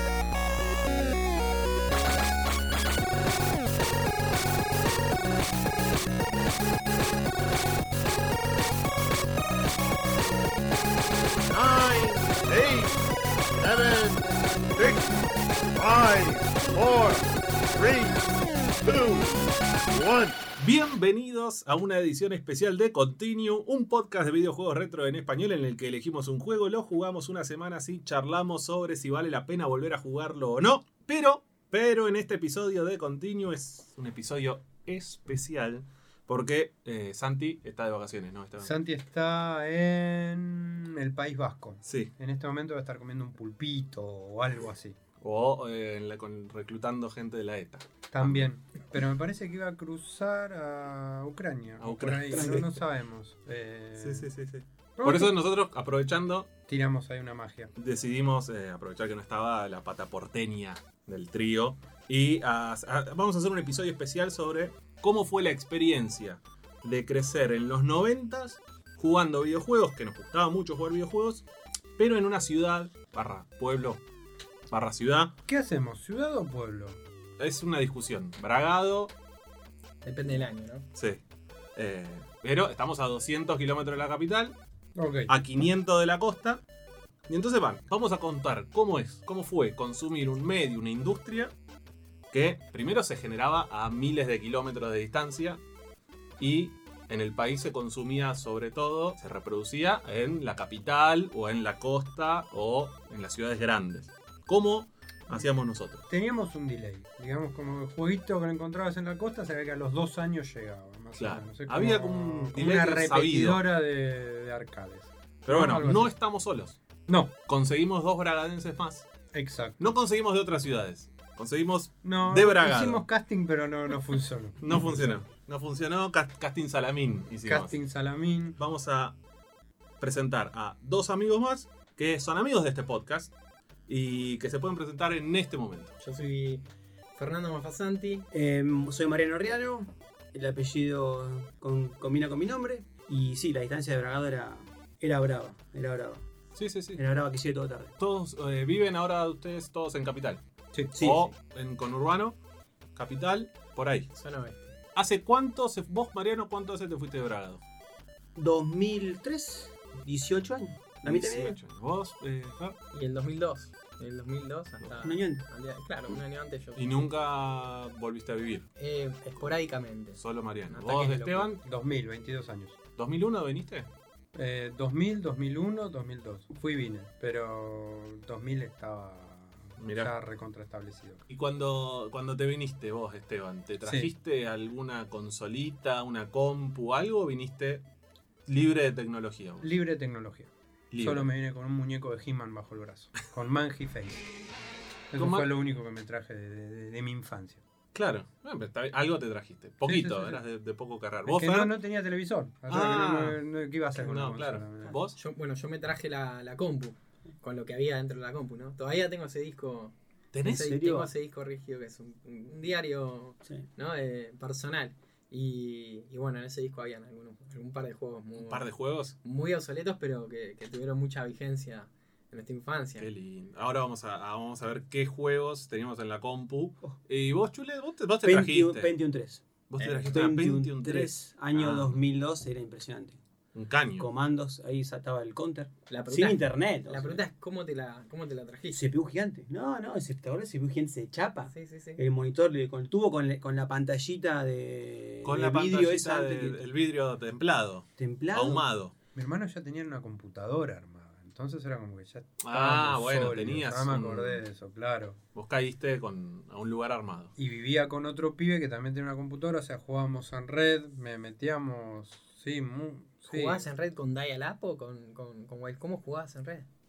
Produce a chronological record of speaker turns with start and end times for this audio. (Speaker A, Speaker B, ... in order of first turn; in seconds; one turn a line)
Speaker A: 11.5-12.9
Speaker A: 13.6-15.1
Speaker A: 15.7-20.4
Speaker B: 20.6-38.7
Speaker C: 38.6-45.0
Speaker B: 41.8-42.1
Speaker B: 45.2-48.5
Speaker C: 48.1-54.3
Speaker B: 51.8-52.7
Speaker B: 54.0-56.5
Speaker C: 55.0-55.4
Speaker C: 56.7-57.7
Speaker B: 57.8-71.5
Speaker B: 72.0-74.0
Speaker B: 74.7-75.3
Speaker C: 75.5-77.0
Speaker B: 77.4-79.1
Speaker D: 80.0-80.9
Speaker B: 80.9-81.2
Speaker B: 81.8-84.6
Speaker C: 85.0-85.3
Speaker B: 85.3-86.6
Speaker B: 87.3-91.5
Speaker B: 92.3-95.6
Speaker B: 96.4-106.0
Speaker C: 106.1-116.1
Speaker B: 111.2-113.6
Speaker B: 115.5-116.8
Speaker B: 117.5-119.1
Speaker C: 119.3-119.9
Speaker B: 119.8-123.0
Speaker C: 122.0-125.2
Speaker B: 124.6-127.8
Speaker C: 127.4-128.6
Speaker B: 128.6-129.2
Speaker B: 130.0-133.3
Speaker B: 133.9-135.9
Speaker D: 136.0-136.6
Speaker D: 137.1-138.3
Speaker E: 138.3-146.2
Speaker B: 146.5-147.0
Speaker E: 146.9-147.9
Speaker B: 148.0-150.4
Speaker E: 150.9-151.3
Speaker B: 151.0-152.4
Speaker B: 152.9-154.1
Speaker D: 154.1-154.7
Speaker B: 154.9-157.6
Speaker E: 158.3-161.6
Speaker B: 161.0-162.8
Speaker D: 162.9-167.1
Speaker E: 165.0-165.4
Speaker B: 166.8-168.7
Speaker D: 168.8-170.2
Speaker B: 170.2-171.6
Speaker D: 170.7-171.6
Speaker C: 171.6-172.8
Speaker B: 173.0-173.9
Speaker C: 174.3-181.2
Speaker B: 179.8-180.1
Speaker B: 181.3-187.8
Speaker C: 183.8-184.1
Speaker B: 188.4-189.7
Speaker C: 189.6-194.3
Speaker B: 190.9-191.3
Speaker C: 195.1-197.6
Speaker B: 195.2-195.5
Speaker B: 197.9-201.7
Speaker C: 199.8-200.4
Speaker C: 201.2-205.0
Speaker B: 202.7-203.4
Speaker B: 203.9-205.2
Speaker D: 205.1-223.1
Speaker B: 210.3-210.6
Speaker E: 210.4-211.1
Speaker B: 218.4-219.1
Speaker B: 223.0-228.9
Speaker E: 228.2-229.4
Speaker B: 229.7-232.0
Speaker D: 229.8-230.2
Speaker E: 230.1-233.2
Speaker B: 233.5-234.1
Speaker E: 234.0-237.2
Speaker D: 235.9-238.8
Speaker E: 238.7-246.6
Speaker D: 241.5-242.0
Speaker B: 245.2-248.9
Speaker E: 248.0-248.7
Speaker C: 249.1-255.2
Speaker B: 252.4-254.4
Speaker B: 255.3-257.3
Speaker C: 257.4-263.6
Speaker D: 263.3-266.6